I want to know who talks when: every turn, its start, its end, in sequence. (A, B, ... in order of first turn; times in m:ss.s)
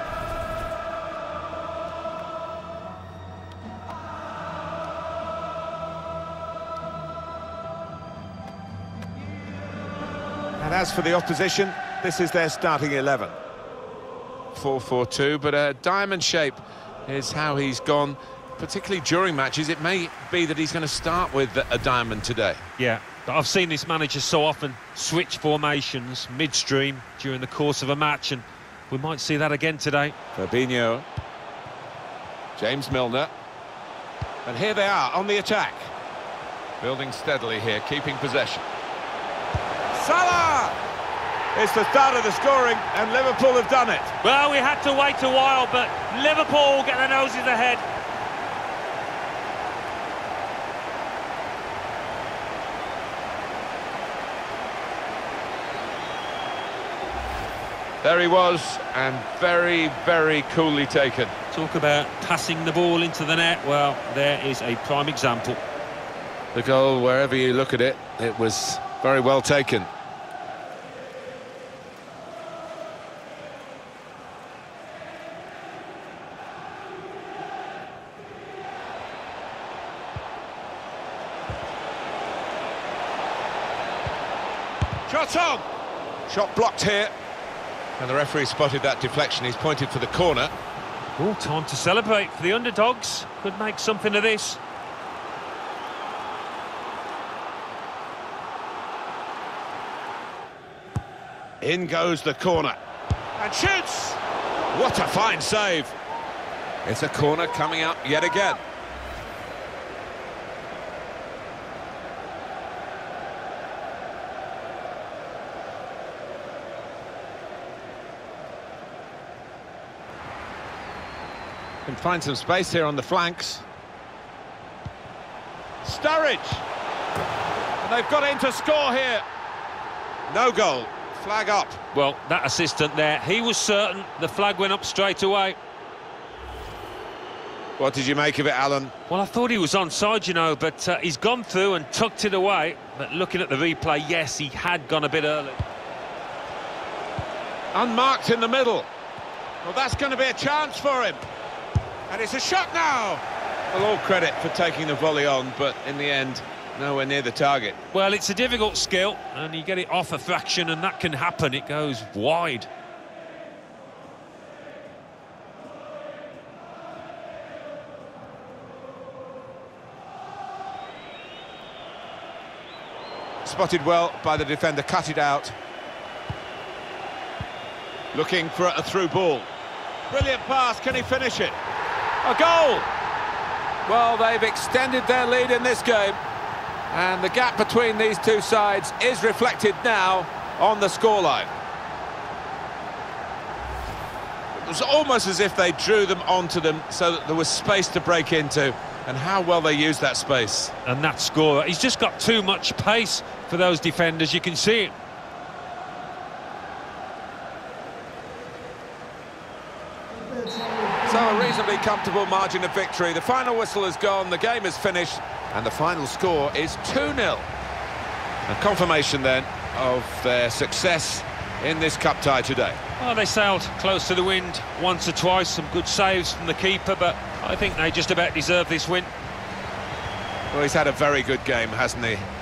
0:10.6-0:13.4 A
0:14.5-0:22.6 A
0:22.8-0:30.2 B
0:30.3-0:31.0 A
0:32.6-0:33.3 A
0:34.4-0:35.9 A
0:36.8-0:38.6 A
0:39.9-0:40.8 A
0:41.5-0:44.1 A
0:44.2-0:47.8 B
0:58.0-1:01.3 A
1:01.5-1:05.6 B
1:06.5-1:09.9 A
1:25.0-1:25.6 A
1:26.3-1:27.1 A
1:28.0-1:30.5 A
1:31.2-1:34.6 B
1:41.6-1:42.8 A
1:43.4-1:44.2 A
1:44.7-1:45.9 A
1:46.8-1:48.6 A
2:01.8-2:03.6 A
2:05.8-2:06.6 A
2:07.8-2:09.2 A
2:10.3-2:11.8 A
2:11.9-2:15.6 B
2:17.8-2:18.9 A
2:19.1-2:25.6 B
2:27.7-2:28.9 A
2:29.6-2:31.2 A
2:32.1-2:37.8 A
2:37.9-2:42.7 B
2:53.4-2:55.5 A
2:58.1-2:59.5 A
3:00.1-3:01.6 A
3:02.2-3:02.9 A
3:03.8-3:06.2 A
3:06.9-3:11.5 A
3:14.5-3:20.7 A
3:20.8-3:25.0 B
3:31.0-3:37.5 A
3:38.5-3:42.8 A
3:43.0-3:49.1 B
3:50.5-3:52.2 A